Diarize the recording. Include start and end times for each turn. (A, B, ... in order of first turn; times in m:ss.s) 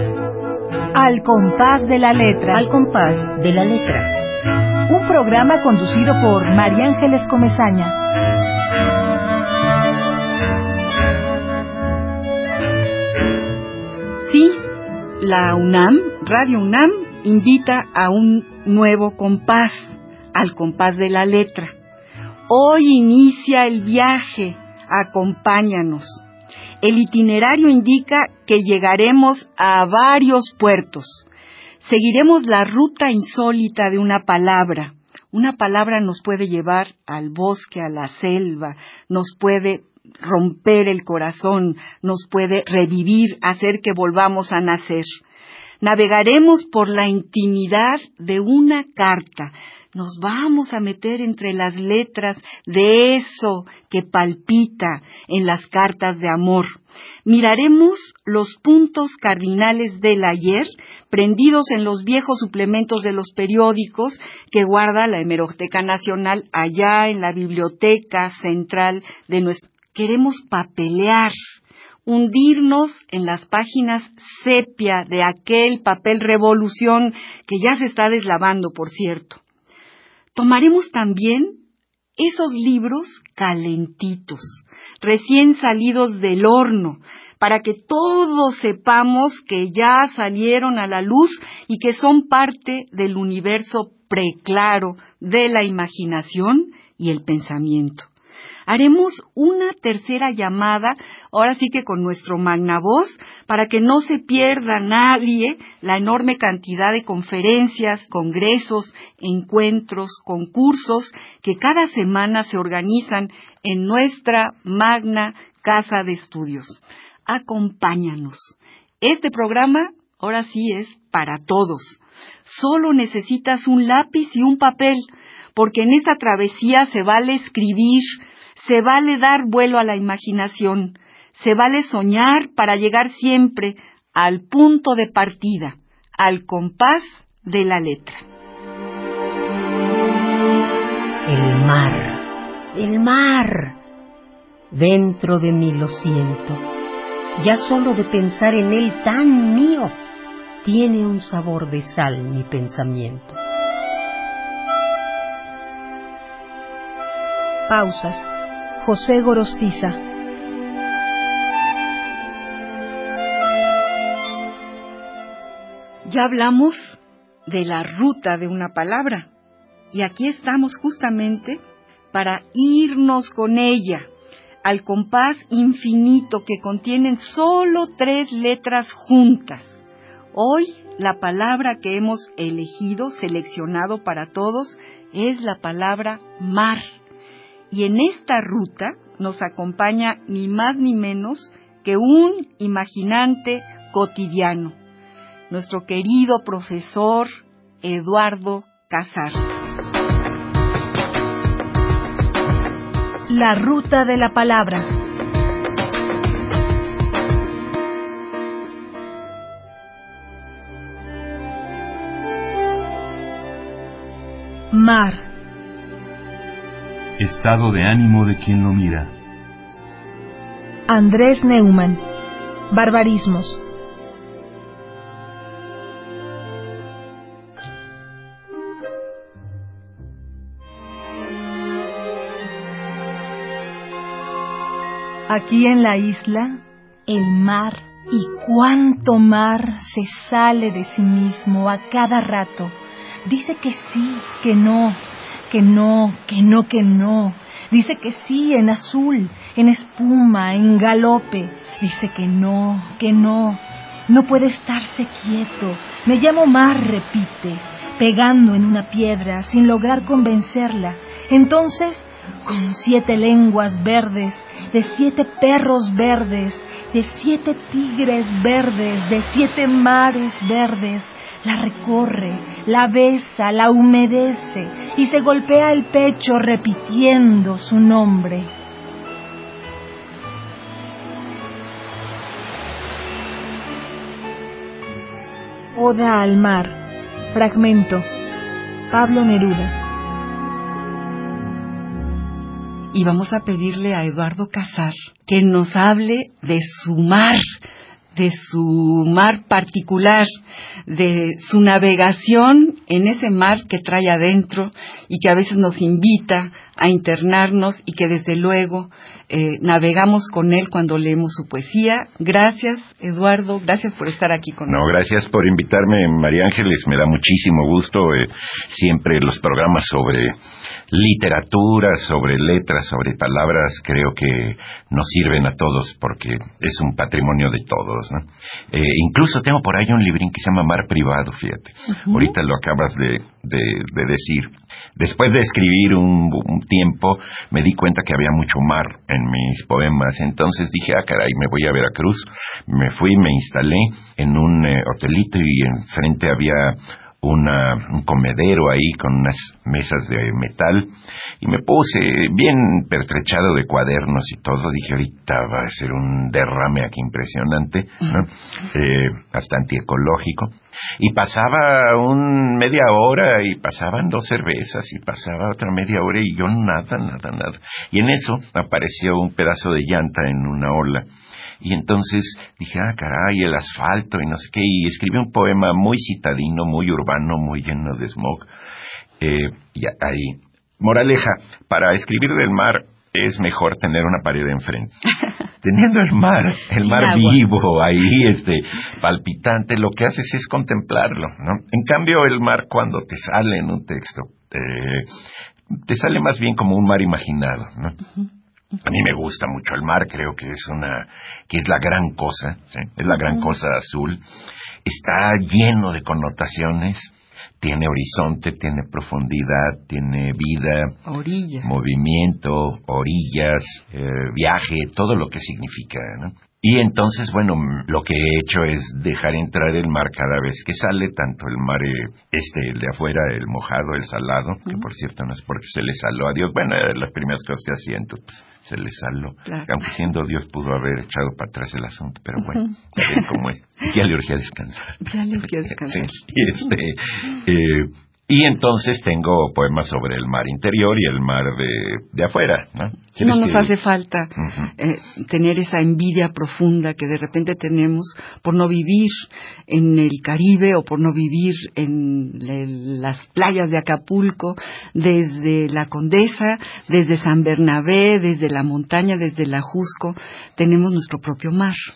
0:00.9-0:02.6 A
0:02.5-0:04.1 B
0:04.9-0:08.0 A
0:14.2-0:14.6 C
0:15.2-0:21.7 C
0:22.5-0:26.2 C
0:26.8-0:31.3 C
0:31.8-0:45.1 C
0:45.8-1:11.3 C
1:12.0-1:19.4 C
1:20.3-1:21.6 C
1:22.2-1:38.1 C
1:38.7-2:18.2 C
2:21.2-2:23.8 B
2:24.7-2:26.6 B
2:27.4-2:30.0 B
2:30.6-2:33.4 B
2:37.7-2:40.0 A
2:46.0-2:49.3 C
2:49.9-2:51.6 C
2:52.1-2:54.1 C
2:54.6-3:06.9 C
3:07.7-3:14.8 C
3:15.5-3:17.3 C
3:17.8-3:19.6 C
3:23.3-3:24.9 A
3:34.7-3:35.3 A
3:37.2-3:39.1 D
3:40.9-3:42.0 A
3:42.7-3:43.6 A
3:55.3-4:38.5 A
4:45.7-4:46.8 A
4:47.3-4:48.0 A
4:48.9-4:49.8 A
4:52.9-4:57.4 C
4:58.2-5:00.3 C
5:00.9-5:14.8 C
5:14.7-5:20.4 E
5:20.9-6:11.0 E
6:11.6-6:18.5 E
6:19.2-6:24.9 E
6:25.6-6:35.1 E
6:26.8-6:27.4 C
6:35.7-6:38.0 E
6:38.8-6:44.2 E
6:44.8-6:50.9 E
6:51.0-6:51.7 C
6:51.6-7:15.0 E
7:15.0-7:16.2 C
7:15.9-7:23.7 E
7:23.2-7:41.8 C